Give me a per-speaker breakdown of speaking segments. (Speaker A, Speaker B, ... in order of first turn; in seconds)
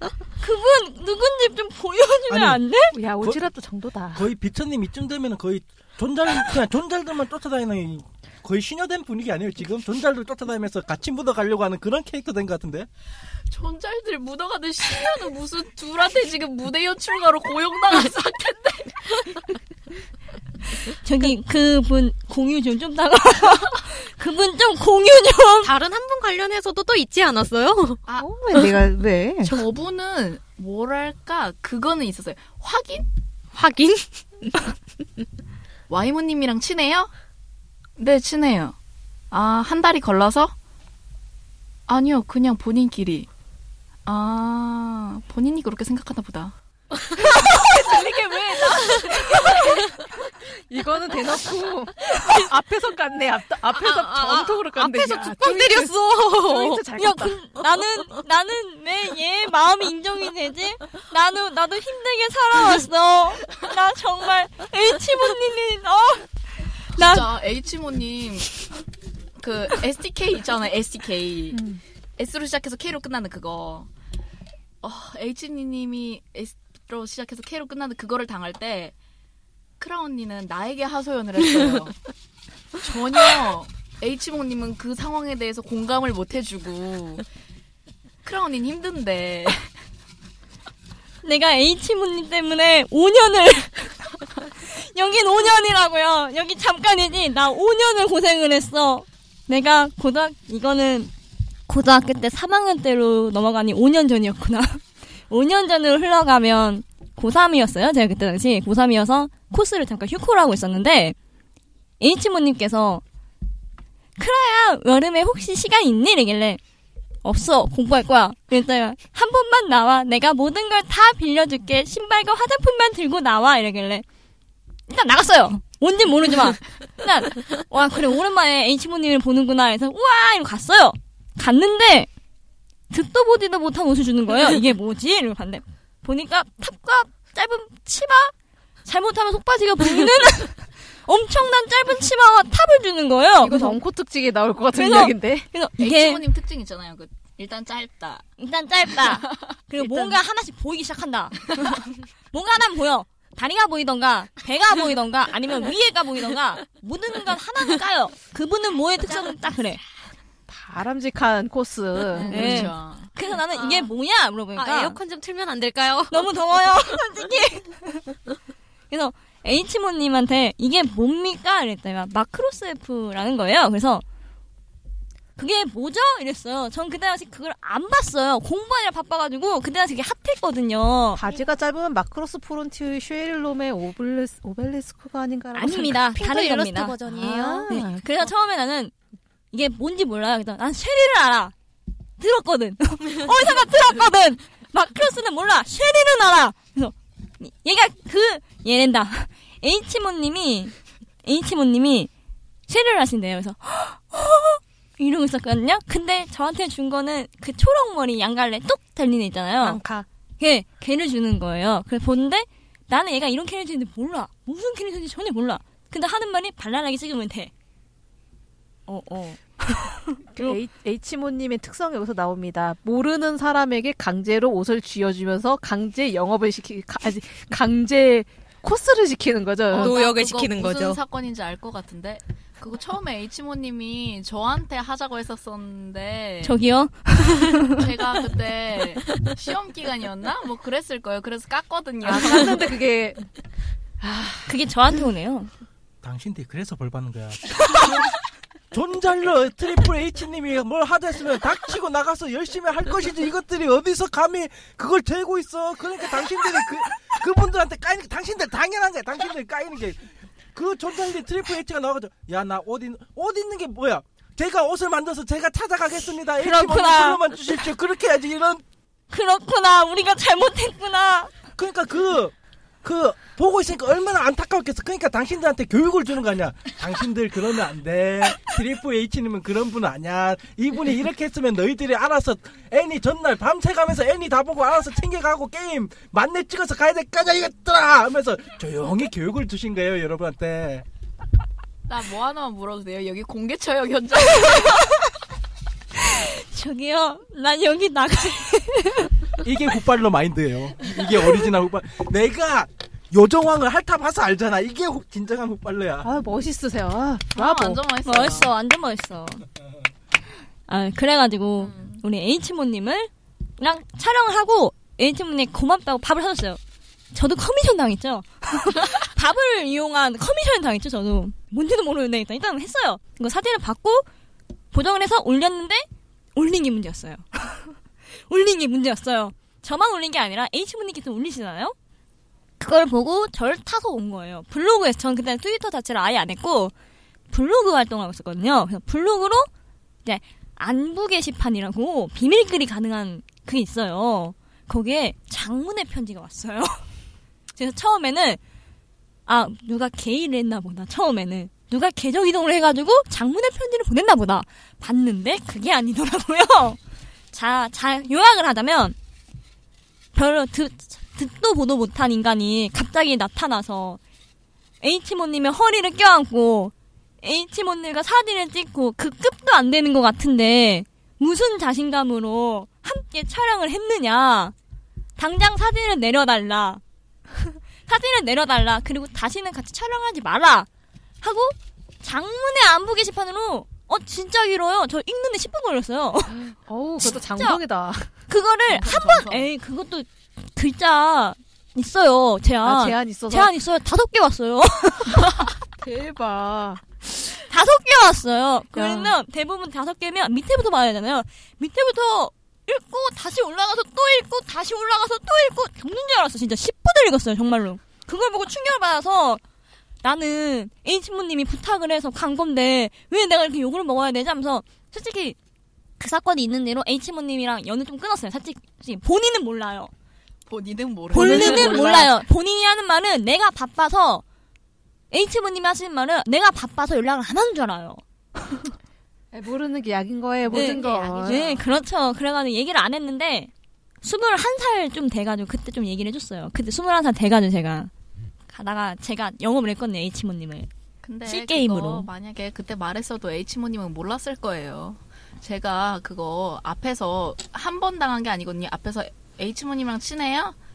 Speaker A: 0.4-3.0, 21.0-25.7, 57.0-66.3, 66.9-67.3, 91.2-94.1, 94.6-101.1, 101.7-111.1, 112.0-113.0, 114.2-116.6, 117.2-124.0, 124.9-132.1, 132.9-138.3, 138.8-143.8, 144.7-146.2, 148.4-159.8, 162.3-165.0, 166.1-168.1, 168.9-174.0, 175.4-181.2, 185.5-188.9, 189.5-191.5, 192.2-200.7, 201.2-202.1, 202.7-209.8, 210.4-217.5, 218.9-220.6, 236.4-237.9, 244.5-245.5, 266.4-267.2, 269.1-271.4, 294.4-295.0, 295.9-299.1, 308.1-309.4, 310.7-316.6, 317.1-324.1, 324.7-327.8, 328.3-331.8, 332.6-336.7, 337.3-339.5, 340.0-346.8, 347.6-348.4, 349.3-356.8, 357.3-358.9, 360.1-364.0, 364.8-374.5, 375.2-376.8, 377.4-380.7, 381.2-386.4, 387.0-387.6, 388.3-395.4, 397.4-409.4, 410.0-415.4, 416.0-419.9, 421.1-424.2, 425.1-428.7, 430.5-433.5, 434.0-437.9, 438.5-440.7, 441.3-442.1
Speaker B: 2.3-2.6, 4.1-12.9, 246.0-248.0, 248.7-268.6, 271.6-290.9, 299.4-306.1
Speaker C: 2.9-4.3, 28.2-29.6, 49.1-49.8, 50.7-57.4, 143.4-145.5, 160.5-162.7, 181.1-186.4, 187.1-188.0, 220.3-230.0, 242.0-243.2, 244.0-244.5, 306.0-307.8, 386.6-388.1, 392.6-393.5, 395.8-396.8, 398.7-399.1, 421.1-422.1, 429.3-431.6
Speaker D: 13.5-19.4, 28.1-28.4, 29.4-33.1, 35.9-37.1, 38.0-38.8, 39.3-40.5, 41.9-43.3, 44.1-46.5, 47.2-49.9, 67.0-68.6, 69.4-73.9, 74.8-78.9, 79.8-82.0, 82.8-87.2, 88.2-89.7, 145.8-148.2, 149.0-149.6, 162.2-163.1, 229.7-236.6, 237.7-242.6, 291.9-294.8, 307.4-308.5, 311.7-312.0, 388.7-389.5, 420.5-422.1, 430.5-431.6, 441.0-450.6
Speaker E: 25.6-28.0, 33.5-34.5, 53.7-56.9, 163.5-163.9, 164.5-166.9, 186.1-188.3, 209.6-210.1, 229.8-231.0